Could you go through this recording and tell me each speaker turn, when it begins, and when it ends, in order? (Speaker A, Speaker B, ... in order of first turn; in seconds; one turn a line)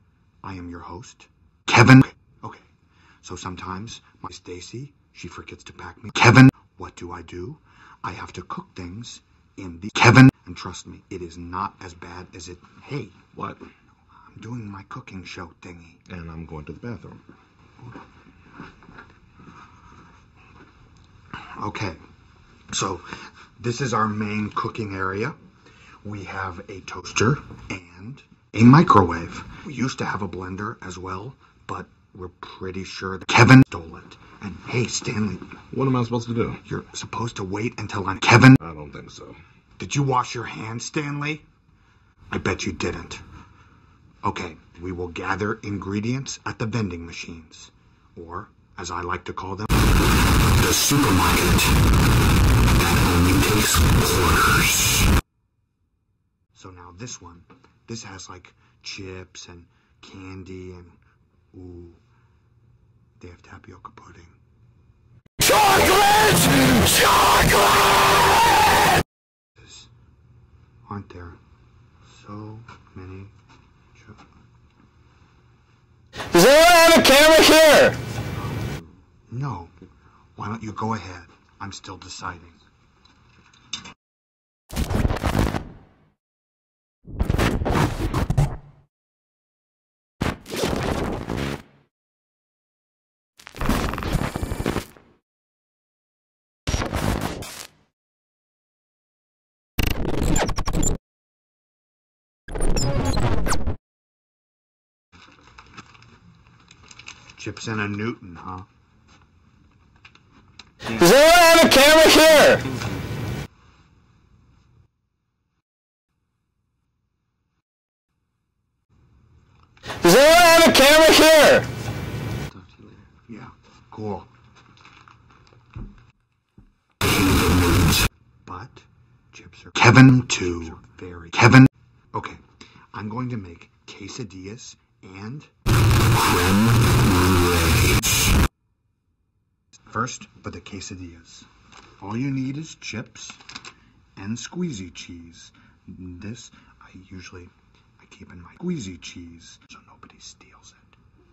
Speaker A: 0.4-2.7
Speaker A: 3.2-13.2
Speaker B: 13.3-13.6
Speaker A: 14.3-16.0
Speaker B: 16.1-17.2
Speaker A: 21.6-22.0
Speaker A: 22.7-25.4
Speaker A: 26.0-35.6
Speaker B: 35.7-36.6
Speaker A: 36.6-38.6
Speaker B: 38.6-39.4
Speaker A: 39.8-41.4
Speaker A: 42.3-43.2
Speaker A: 44.2-49.9
Speaker A: 50.5-51.8
Speaker A: 52.8-55.1
Speaker A: 56.5-61.0
Speaker A: 61.5-62.0
Speaker A: 63.2-64.4
Speaker A: 65.5-67.7
Speaker A: 69.6-69.9
Speaker A: 70.9-71.4
Speaker A: 72.1-73.3
Speaker A: 74.0-74.2
Speaker A: 76.4-77.8
Speaker A: 79.3-79.8
Speaker A: 80.4-82.6
Speaker A: 107.3-108.7
Speaker C: 111.0-113.0
Speaker C: 120.1-121.6
Speaker C: 122.5-123.0
Speaker A: 123.3-124.3
Speaker A: 128.4-135.5
Speaker A: 136.3-138.0
Speaker A: 139.9-141.5
Speaker A: 142.0-143.4
Speaker A: 144.2-151.0